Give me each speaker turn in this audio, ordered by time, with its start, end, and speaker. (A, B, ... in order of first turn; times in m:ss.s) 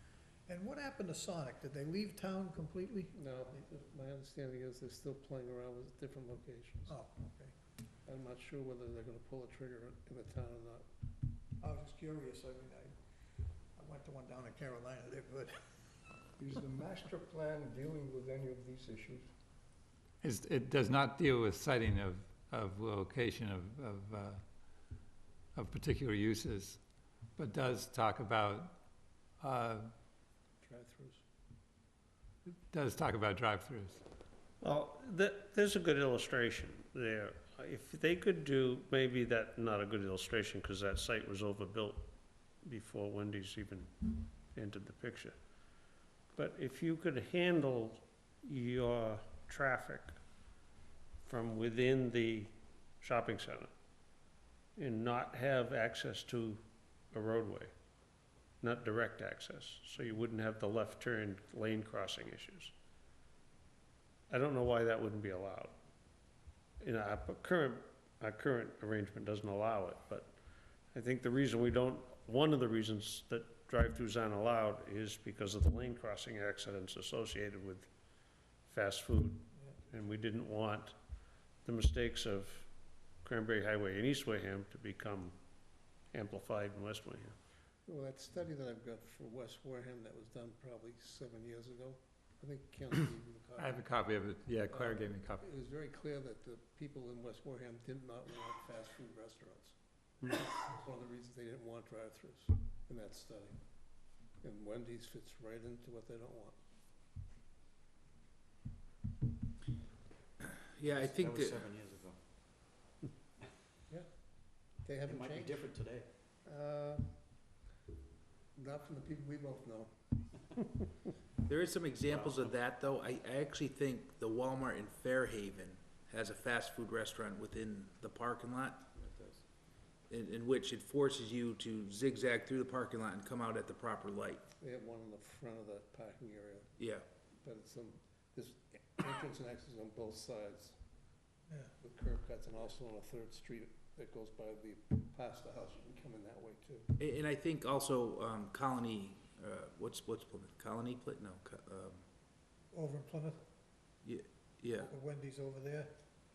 0:00.5-0:03.1 A
0:03.1-0:06.9 B
0:06.9-0:07.5 A
0:08.1-0:10.9 B
0:11.6-0:12.9 A
0:13.7-0:15.5 A
0:16.4-0:19.3 C
0:20.2-0:24.4 D
0:25.5-0:26.8 D
0:27.3-0:28.7 D
0:29.4-0:29.9 D
0:30.6-0:31.2 B
0:32.7-0:34.0 D
0:34.6-0:42.1 E
0:42.6-0:45.4 E
0:46.3-0:50.2 E
0:51.2-0:53.7 E
0:54.8-0:57.7 E
0:58.6-1:02.7 E
1:04.3-1:05.8 E
1:06.8-1:10.3 E
1:10.9-1:17.9 E
1:18.6-1:21.0 E
1:21.6-1:22.7 E
1:23.2-1:25.3 E
1:26.1-1:27.4 E
1:27.8-1:33.8 B
1:33.6-1:35.4 D
1:34.7-1:43.6 B
1:44.4-1:46.6 B
1:50.4-1:51.7 F
1:51.0-1:52.2 G
1:54.8-1:55.8 B
1:55.0-1:56.1 G
1:56.4-1:57.2 B
1:58.5-2:00.0 B
2:01.4-2:09.0 F
2:02.1-2:02.5 G
2:09.0-2:09.4 G
2:10.1-2:14.4 F
2:14.6-2:16.7 B
2:16.8-2:17.0 F
2:17.4-2:20.8 B
2:21.8-2:26.9 B
2:27.0-2:32.0 F
2:32.7-2:33.4 A
2:34.0-2:34.9 F
2:34.8-2:35.9 A